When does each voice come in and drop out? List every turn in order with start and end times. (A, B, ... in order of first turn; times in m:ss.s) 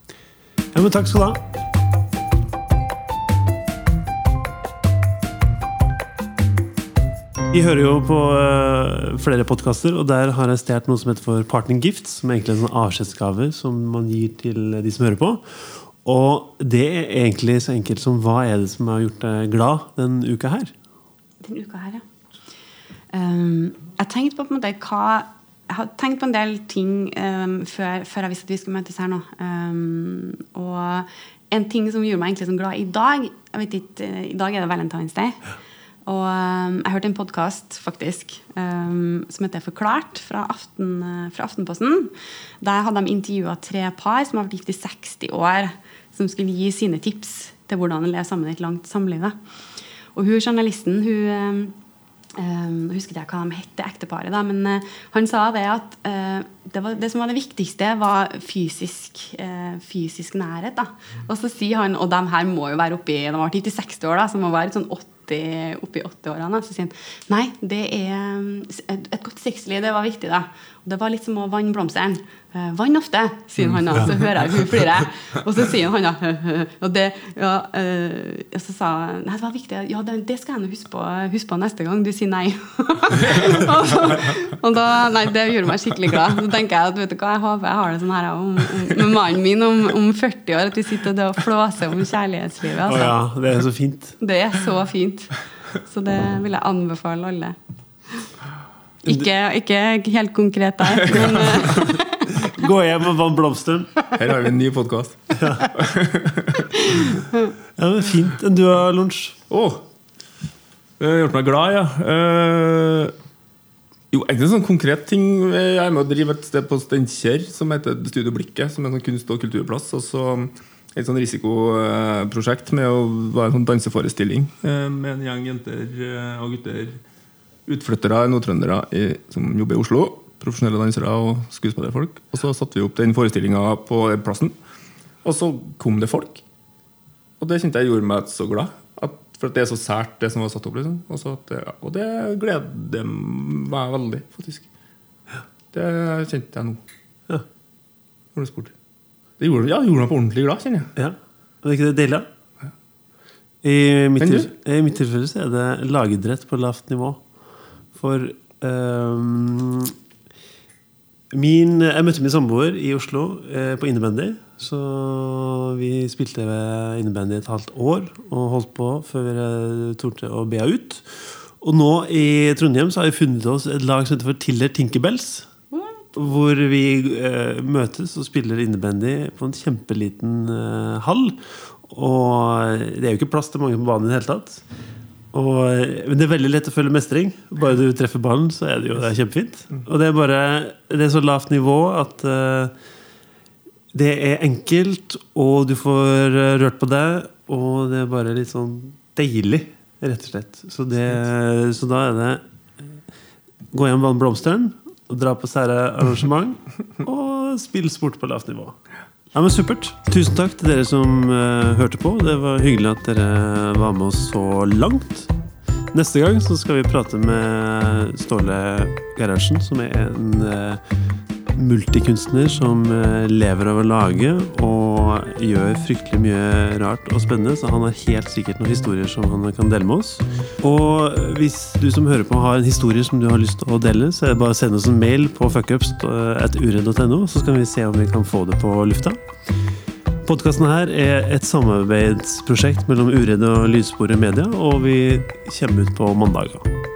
0:00.7-0:01.4 A
0:07.5-0:20.7 A
0:21.4-0:22.0 B
0:23.1-0:35.4 B
0:36.0-0:49.3 B
0:50.1-0:51.7 B
0:52.3-1:33.1 B
1:32.8-1:34.2 A
1:34.2-1:37.6 B
1:39.0-1:42.7 B
1:41.7-1:44.1 A
1:44.1-1:46.7 C
1:45.4-1:45.7 A
1:46.7-1:47.5 B
1:47.8-1:49.4 A
1:49.5-1:49.8 C
1:51.0-1:53.1 C
1:54.1-2:07.0 C
2:07.6-2:14.5 C
2:15.2-2:16.4 C
2:17.4-2:24.7 C
2:25.7-2:26.8 C
2:28.3-2:28.7 C
2:29.4-2:30.9 C
2:31.0-2:32.2 A
2:33.6-2:37.2 A
2:34.2-2:34.5 C
2:37.9-2:39.9 A
2:41.3-2:55.5 A
2:55.7-2:56.0 B
2:56.1-3:04.6 A
3:05.3-3:12.7 A
3:13.9-3:23.0 A
3:23.7-3:28.8 A
3:29.3-3:35.3 A
3:35.9-3:40.8 A
3:41.5-3:59.2 A
4:00.2-4:06.7 A